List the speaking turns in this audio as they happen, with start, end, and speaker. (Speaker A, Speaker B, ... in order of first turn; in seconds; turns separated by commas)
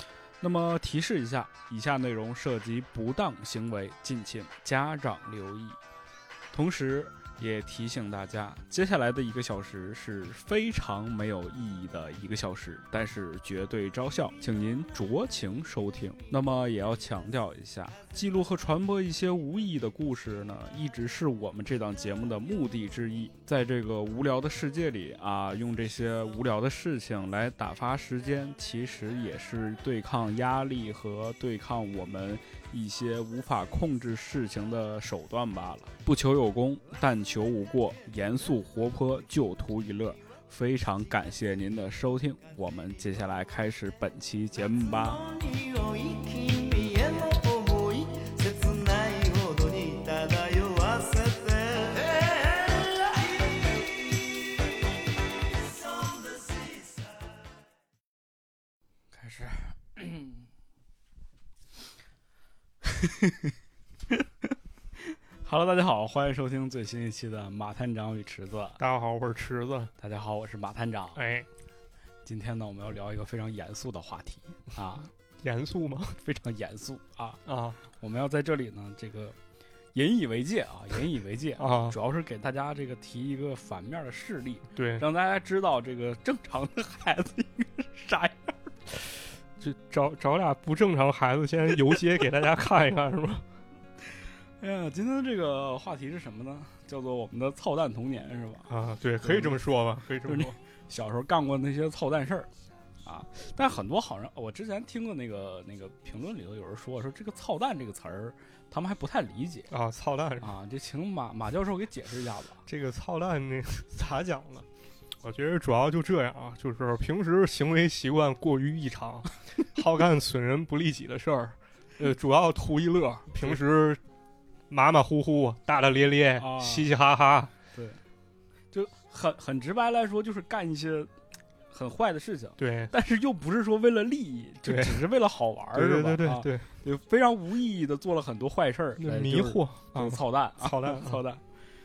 Speaker A: 0.4-5.8, Speaker A: 6.5-45.2, Speaker B: 45.0-53.2, Speaker A: 59.1-60.4, Speaker A: 62.8-63.5, Speaker A: 65.4-68.8, Speaker C: 68.8-69.9, Speaker A: 70.0-71.2, Speaker C: 71.1-71.5, Speaker A: 72.2-75.1, Speaker C: 75.4-76.2, Speaker A: 76.2-79.3, Speaker C: 77.5-77.8, Speaker A: 79.9-88.5, Speaker C: 81.6-82.0, Speaker C: 84.8-85.0, Speaker C: 89.6-93.4, Speaker A: 94.6-98.7, Speaker C: 98.7-100.5, Speaker A: 99.2-99.6, Speaker A: 100.2-102.5, Speaker A: 103.0-109.7, Speaker C: 109.7-110.5, Speaker A: 110.4-112.6, Speaker C: 112.7-114.7, Speaker C: 115.2-124.0, Speaker C: 124.7-127.5, Speaker A: 126.4-126.9, Speaker A: 128.7-131.1, Speaker A: 131.7-141.4, Speaker C: 132.6-132.9, Speaker C: 134.6-135.0, Speaker C: 135.7-136.6, Speaker C: 139.0-141.2